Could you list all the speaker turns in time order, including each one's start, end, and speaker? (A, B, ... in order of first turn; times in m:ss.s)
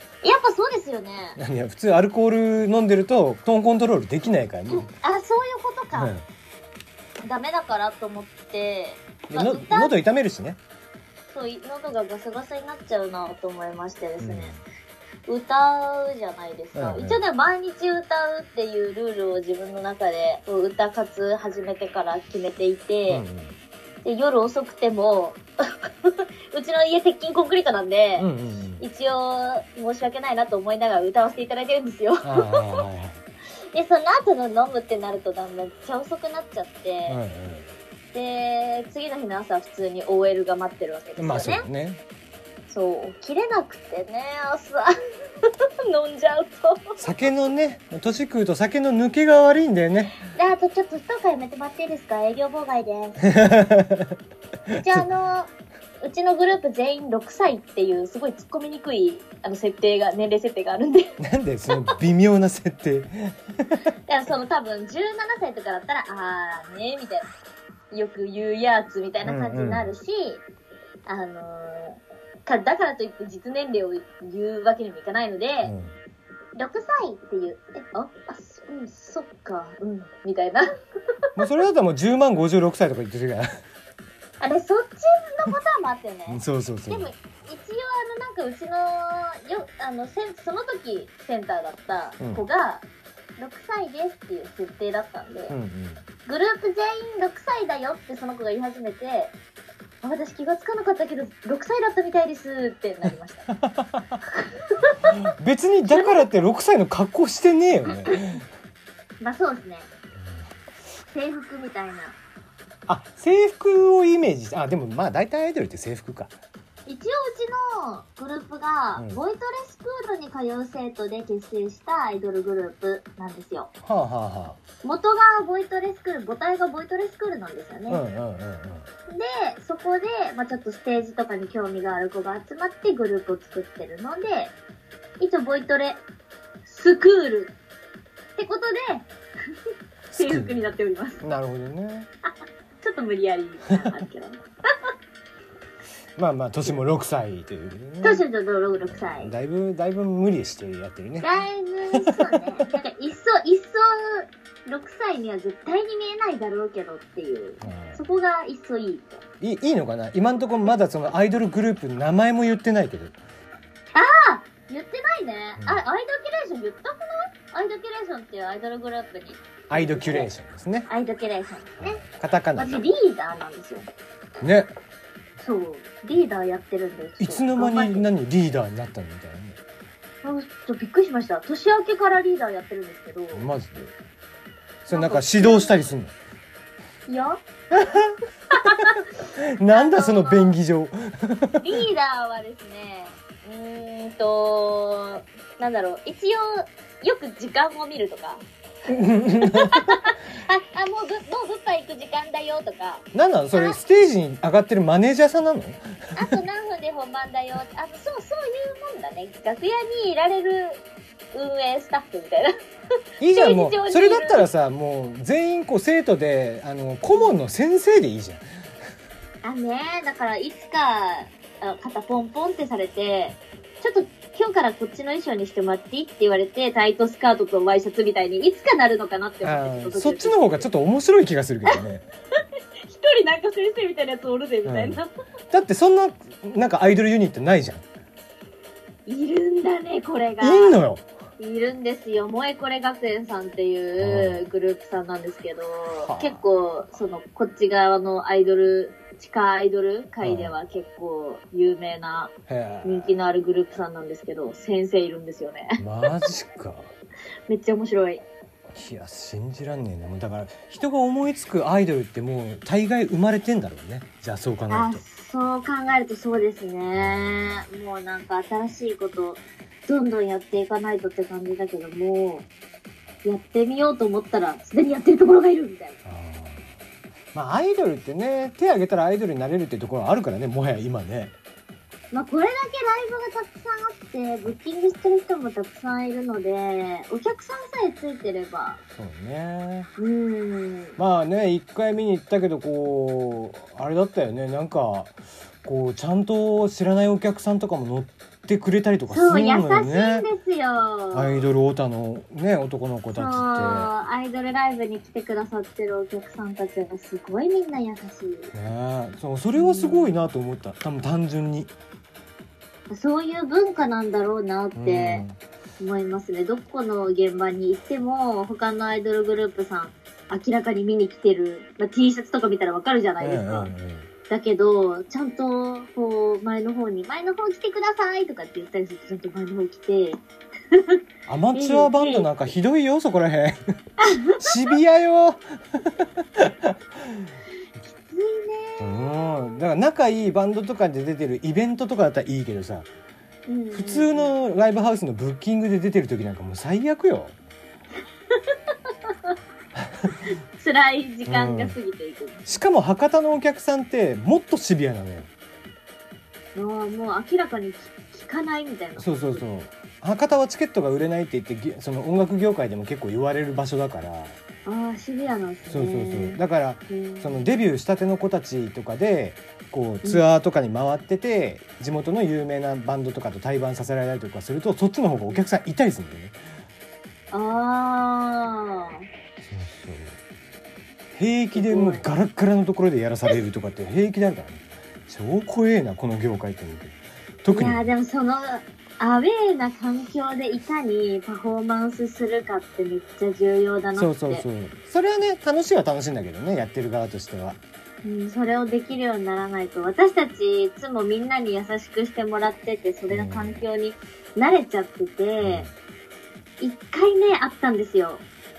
0:00.2-0:01.4 A
0:01.4-0:04.9 B
0:04.7-0:06.1 A
0:05.9-0:06.2 B
0:07.2-0:09.9 A
0:09.3-0:10.6 B
0:11.3-0:14.5 A
0:14.2-0:14.6 B
0:15.3-0:23.2 A
0:16.8-0:17.2 B
0:23.1-0:23.6 B
0:24.0-0:25.4 A
0:26.0-0:28.3 A
0:28.2-0:28.8 B
0:28.8-0:32.8 A
0:32.2-0:33.2 B
0:33.7-0:37.2 A
0:37.1-0:37.7 B
0:38.1-0:41.7 A
0:41.2-0:42.0 B
0:42.7-0:44.9 A
0:45.4-0:47.0 A
0:47.0-0:50.2 B
0:50.3-0:53.3 A
0:53.2-0:54.2 B
0:54.7-0:55.1 B
0:54.8-1:01.2 A
1:01.2-1:03.9 B
1:04.1-1:07.3 A
1:07.9-1:10.4 A
1:09.2-1:09.9 B
1:11.1-1:15.7 A
1:15.6-1:15.9 B
1:16.6-1:20.7 A
1:21.4-1:23.5 B
1:24.4-1:32.8 A
1:26.3-1:27.1 B
1:33.4-1:35.6 A
1:35.5-1:36.0 B
1:36.3-1:39.3 A
1:40.0-1:43.5 A
1:43.6-1:44.0 B
1:44.3-1:45.2 A
1:45.4-1:48.4 B
1:45.9-1:46.2 A
1:47.9-1:48.2 A
1:49.2-1:49.9 A
1:51.1-1:52.2 A
1:52.9-1:56.3 B
1:56.9-2:03.7 A
2:03.9-2:04.6 B
2:04.8-2:08.0 A
2:07.9-2:08.9 B
2:09.1-2:14.5 A
2:15.2-2:16.0 A
2:16.6-2:17.5 A
2:18.4-2:19.1 A
2:20.1-2:22.1 B
2:20.2-2:21.2 A
2:22.8-2:24.4 A
2:26.2-2:28.2 B
2:28.0-2:29.3 A
2:28.9-2:31.3 B
2:31.2-2:39.2 A
2:31.9-2:32.4 B
2:37.6-2:38.0 B
2:39.4-2:43.2 B
2:44.0-2:50.3 A
2:49.7-2:50.9 B
2:50.9-2:52.0 A
2:51.8-2:52.9 B
2:52.6-2:53.9 A
2:54.4-2:54.7 B
2:55.4-2:58.1 A
2:57.2-2:59.6 B
3:00.2-3:03.5 A
3:03.3-3:03.9 B
3:04.8-3:06.1 B
3:04.9-3:05.8 A
3:07.1-3:07.4 A
3:07.7-3:08.1 B
3:08.5-3:09.0 A
3:09.4-3:11.7 B
3:09.7-3:10.6 A
3:11.6-3:18.4 A
3:18.9-3:19.8 B
3:19.4-3:23.8 A
3:23.1-3:26.4 B
3:26.2-3:30.8 A
3:31.3-3:32.5 A
3:33.2-3:38.4 B
3:33.3-3:34.5 A
3:39.4-3:50.7 A
3:49.4-3:52.0 B
3:52.4-3:55.1 A
3:54.7-3:55.0 B
3:55.5-3:57.8 B
3:59.1-4:00.8 A
4:00.4-4:01.0 B
4:01.4-4:12.3 A
4:04.0-4:04.4 B
4:06.0-4:06.4 B
4:10.2-4:10.6 B
4:12.5-4:13.1 B
4:12.8-4:16.1 A
4:15.8-4:16.9 B
4:17.5-4:18.2 A
4:18.7-4:25.0 B
4:24.7-4:32.5 A
4:26.9-4:27.6 B
4:33.2-4:36.0 A
4:36.0-4:36.7 B
4:37.3-4:41.3 B
4:42.1-4:48.8 A
4:49.0-4:49.9 B
4:50.0-4:51.0 A
4:51.0-5:00.2 B
4:59.1-5:01.4 A
5:01.1-5:03.9 B
5:03.1-5:08.5 A
5:08.5-5:11.7 B
5:09.6-5:10.2 A
5:12.9-5:15.3 A
5:14.8-5:15.4 B
5:15.8-5:23.7 A
5:23.2-5:24.1 B
5:24.3-5:30.2 A
5:30.7-5:31.0 A
5:31.3-5:33.8 B
5:31.5-5:32.3 A
5:34.0-5:34.4 A
5:34.4-5:37.2 B
5:37.8-5:38.8 A
5:38.8-5:42.9 B
5:43.5-5:44.3 A
5:43.7-5:47.4 B
5:48.3-5:49.1 A
5:50.3-5:52.6 A
5:51.3-5:51.8 B
5:52.5-5:55.3 B
5:56.6-5:59.4 A
5:59.0-6:04.4 B
6:04.7-6:07.4 A
6:05.7-6:16.4 B
6:17.3-6:19.0 A
6:19.5-6:20.2 B
6:21.1-6:27.9 B
6:21.5-6:22.1 A
6:27.5-6:34.4 A
6:34.0-6:37.6 B
6:38.0-6:45.7 A
6:43.1-6:43.6 B
6:45.4-6:45.7 B
6:46.6-6:48.2 A